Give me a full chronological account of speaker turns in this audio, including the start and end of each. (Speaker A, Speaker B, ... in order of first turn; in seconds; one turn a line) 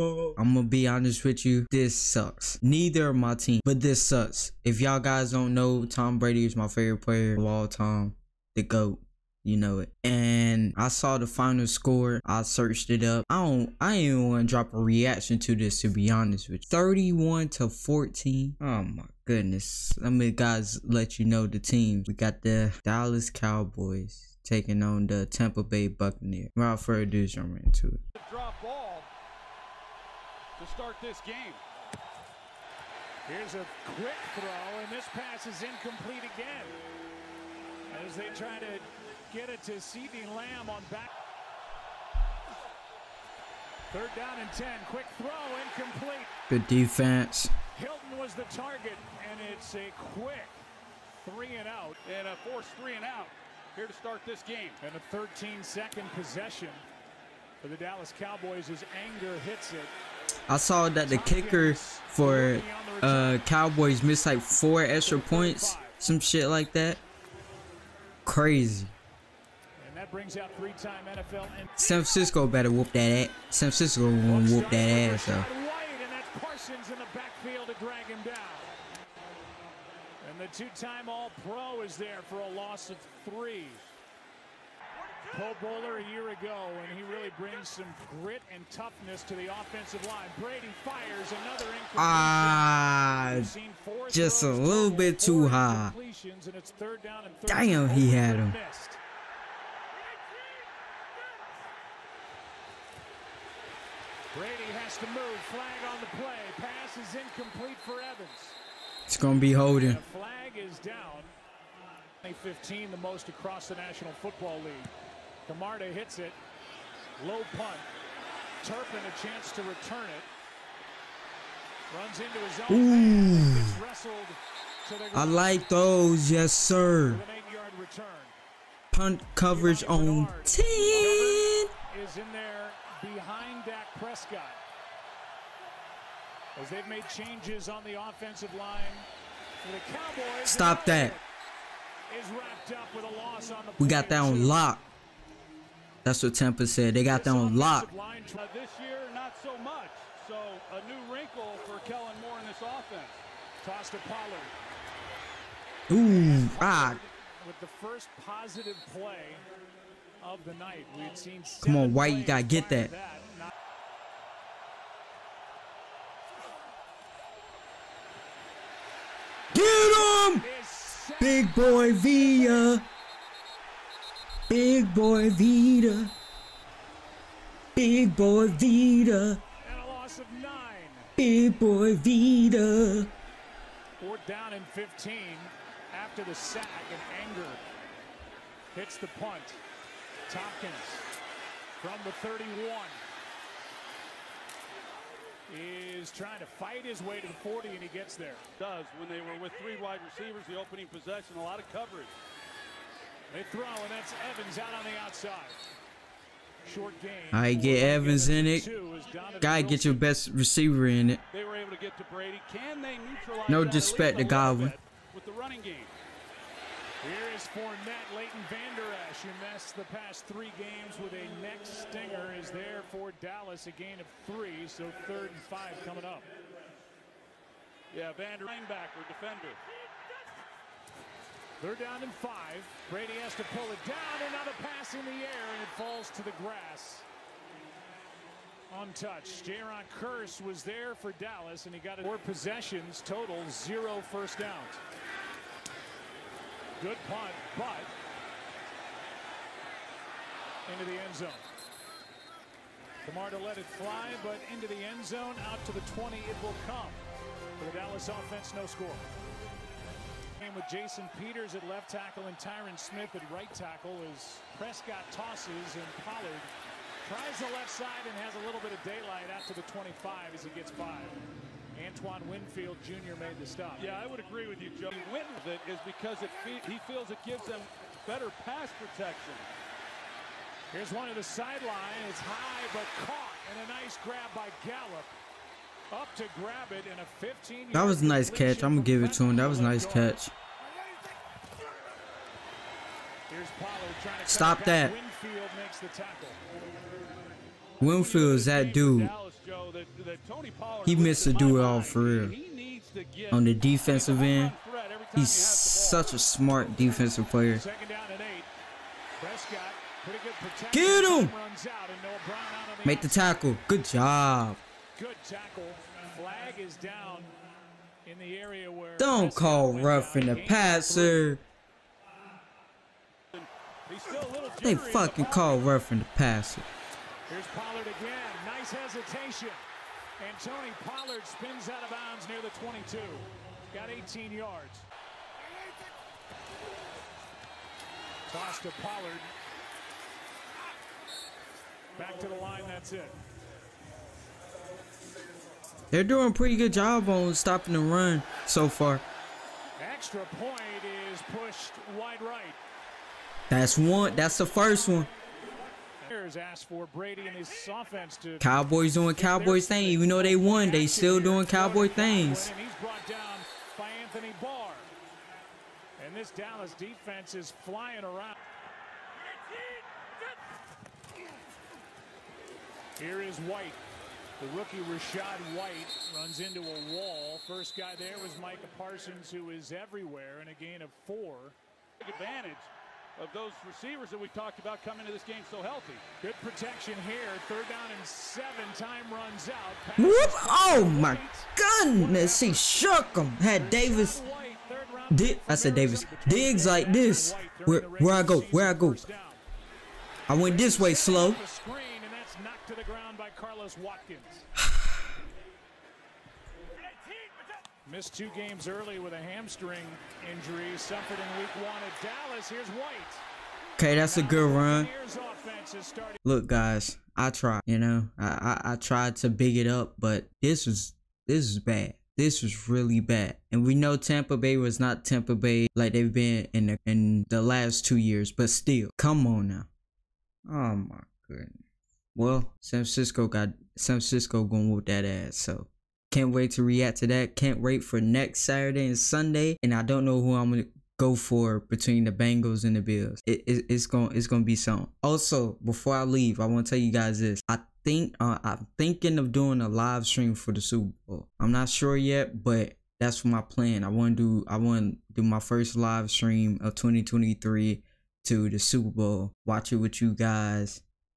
Speaker A: 0.3-28.0
Speaker B: 28.1-29.1
Speaker B: 30.6-31.6
Speaker C: 33.2-36.8
Speaker C: 37.9-41.1
Speaker C: 43.9-46.3
Speaker A: 46.5-47.5
Speaker C: 47.7-50.6
Speaker C: 51.2-52.0
Speaker B: 52.0-54.8
Speaker C: 54.8-56.8
Speaker C: 57.6-59.9
Speaker A: 60.5-67.0
Speaker C: 61.0-63.4
Speaker C: 65.0-66.0
Speaker A: 68.2-68.9
Speaker C: 69.8-71.7
Speaker A: 71.8-75.5
Speaker C: 74.2-78.7
Speaker C: 80.2-83.8
Speaker C: 85.3-99.0
Speaker A: 92.0-93.5
Speaker A: 94.1-95.9
Speaker A: 97.5-98.6
Speaker C: 104.3-108.6
Speaker A: 109.1-110.0
Speaker C: 109.8-111.3
Speaker C: 112.2-114.9
Speaker C: 115.5-116.4
Speaker C: 117.2-117.8
Speaker C: 118.6-120.3
Speaker C: 121.9-125.7
Speaker A: 122.7-123.8
Speaker A: 125.1-127.2
Speaker C: 126.7-128.3
Speaker A: 128.9-131.7
Speaker C: 129.4-134.6
Speaker C: 136.6-139.1
Speaker C: 139.6-141.2
Speaker A: 140.4-141.2
Speaker C: 142.1-144.6
Speaker A: 143.8-144.8
Speaker A: 146.0-147.9
Speaker C: 147.0-148.4
Speaker B: 148.4-153.2
Speaker C: 153.6-154.5
Speaker A: 155.9-157.0
Speaker C: 156.0-159.4
Speaker C: 160.2-163.5
Speaker A: 161.6-162.9
Speaker A: 169.5-170.4
Speaker C: 169.5-172.7
Speaker A: 171.2-172.8
Speaker A: 174.5-176.1
Speaker A: 177.7-179.4
Speaker C: 179.6-181.1
Speaker A: 181.2-183.1
Speaker C: 184.0-187.6
Speaker C: 188.7-189.6
Speaker C: 190.3-191.1
Speaker C: 191.8-193.0
Speaker C: 195.5-198.4
Speaker B: 198.6-202.1
Speaker C: 203.3-205.6
Speaker C: 206.6-210.1
Speaker A: 207.3-208.7
Speaker A: 209.4-211.2
Speaker B: 211.3-215.9
Speaker A: 213.5-214.7
Speaker C: 217.0-226.3
Speaker B: 227.9-229.6
Speaker C: 231.6-237.1
Speaker C: 238.7-244.8
Speaker C: 246.8-247.9
Speaker C: 250.7-251.4
Speaker C: 253.0-257.0
Speaker C: 257.6-259.1
Speaker C: 260.4-266.5
Speaker C: 267.0-273.9
Speaker B: 273.8-279.5
Speaker C: 280.7-285.1
Speaker C: 285.9-290.1
Speaker A: 287.7-290.3
Speaker C: 293.3-296.4
Speaker A: 294.2-294.9
Speaker A: 297.8-299.1
Speaker B: 297.9-306.2
Speaker A: 300.9-302.3
Speaker C: 301.2-301.9
Speaker A: 303.3-304.5
Speaker A: 305.1-307.6
Speaker C: 307.5-308.5
Speaker C: 309.2-313.4
Speaker A: 310.7-311.3
Speaker A: 312.8-314.6
Speaker C: 314.9-317.3
Speaker C: 318.0-321.3
Speaker A: 319.0-321.4
Speaker B: 323.3-325.6
Speaker A: 324.6-326.7
Speaker C: 327.3-329.6
Speaker C: 330.2-334.9
Speaker C: 338.3-339.3
Speaker C: 341.9-343.1
Speaker A: 345.9-349.0
Speaker C: 349.8-352.6
Speaker A: 353.5-355.1
Speaker C: 356.0-358.6
Speaker A: 358.4-362.5
Speaker C: 359.1-364.9
Speaker C: 366.0-368.4
Speaker C: 373.0-373.8
Speaker C: 374.4-381.6
Speaker B: 382.0-386.0
Speaker C: 386.2-392.8
Speaker A: 390.0-394.2
Speaker C: 393.5-399.4
Speaker A: 395.1-399.0
Speaker A: 400.3-401.4
Speaker C: 400.4-404.5
Speaker C: 407.8-413.2
Speaker A: 413.8-414.9
Speaker C: 414.0-416.2
Speaker A: 416.2-429.7
Speaker A: 430.4-431.6
Speaker A: 432.1-460.8